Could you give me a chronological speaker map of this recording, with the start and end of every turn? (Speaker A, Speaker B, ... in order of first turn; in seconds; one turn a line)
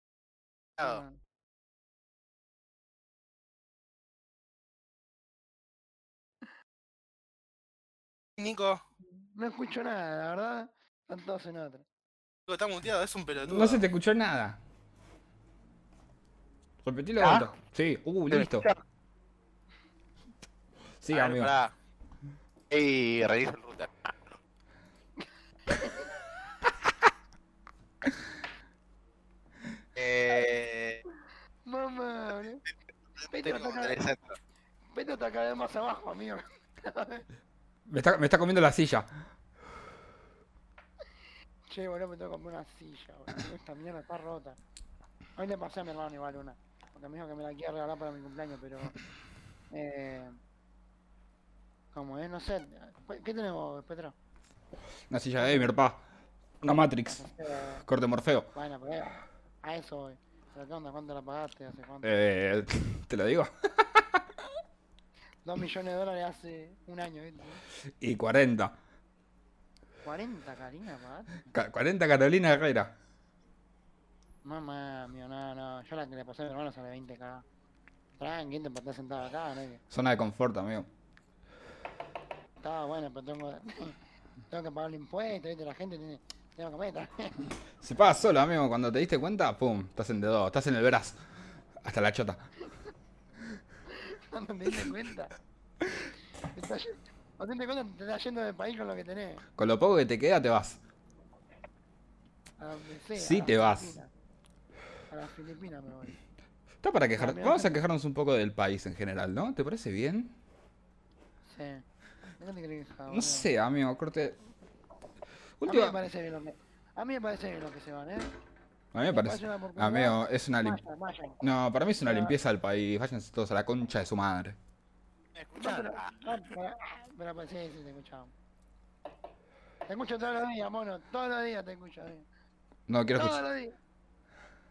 Speaker A: 0.8-1.0
Speaker B: 0.8-1.2
Speaker A: 8.4-8.8
Speaker B: 9.1-11.8
Speaker A: 12.5-13.8
Speaker C: 13.5-14.6
Speaker C: 16.8-18.7
Speaker A: 17.2-17.5
Speaker A: 18.3-18.8
Speaker C: 21.0-21.5
Speaker A: 21.1-21.7
Speaker A: 22.7-23.9
Speaker B: 25.7-26.1
Speaker A: 29.9-31.0
Speaker B: 31.6-32.6
Speaker A: 33.2-34.4
Speaker B: 33.3-34.0
Speaker B: 34.9-37.2
Speaker C: 37.9-39.1
Speaker B: 41.7-44.6
Speaker B: 45.4-49.0
Speaker B: 49.7-50.4
Speaker B: 51.9-54.1
Speaker C: 55.1-56.0
Speaker B: 55.4-55.7
Speaker C: 56.6-57.2
Speaker B: 57.1-57.9
Speaker C: 57.9-58.5
Speaker B: 58.5-62.1
Speaker C: 62.0-64.2
Speaker B: 65.4-67.6
Speaker C: 68.0-68.8
Speaker B: 70.0-71.5
Speaker C: 71.5-72.9
Speaker B: 74.4-77.4
Speaker B: 78.2-79.8
Speaker C: 79.9-80.9
Speaker B: 82.6-84.0
Speaker B: 84.5-87.5
Speaker C: 87.8-91.2
Speaker C: 91.8-92.4
Speaker B: 93.9-95.3
Speaker B: 96.5-99.4
Speaker C: 99.6-100.8
Speaker B: 102.6-104.1
Speaker C: 103.2-103.9
Speaker B: 105.1-106.2
Speaker C: 106.8-110.3
Speaker B: 107.2-107.8
Speaker B: 111.5-111.8
Speaker B: 112.4-113.5
Speaker C: 113.1-114.4
Speaker C: 115.6-116.0
Speaker B: 115.7-118.3
Speaker C: 118.9-120.8
Speaker B: 119.1-121.4
Speaker C: 121.4-124.6
Speaker B: 122.0-122.3
Speaker A: 125.3-126.2
Speaker B: 125.6-128.3
Speaker B: 129.9-132.2
Speaker C: 132.9-133.4
Speaker B: 133.1-133.7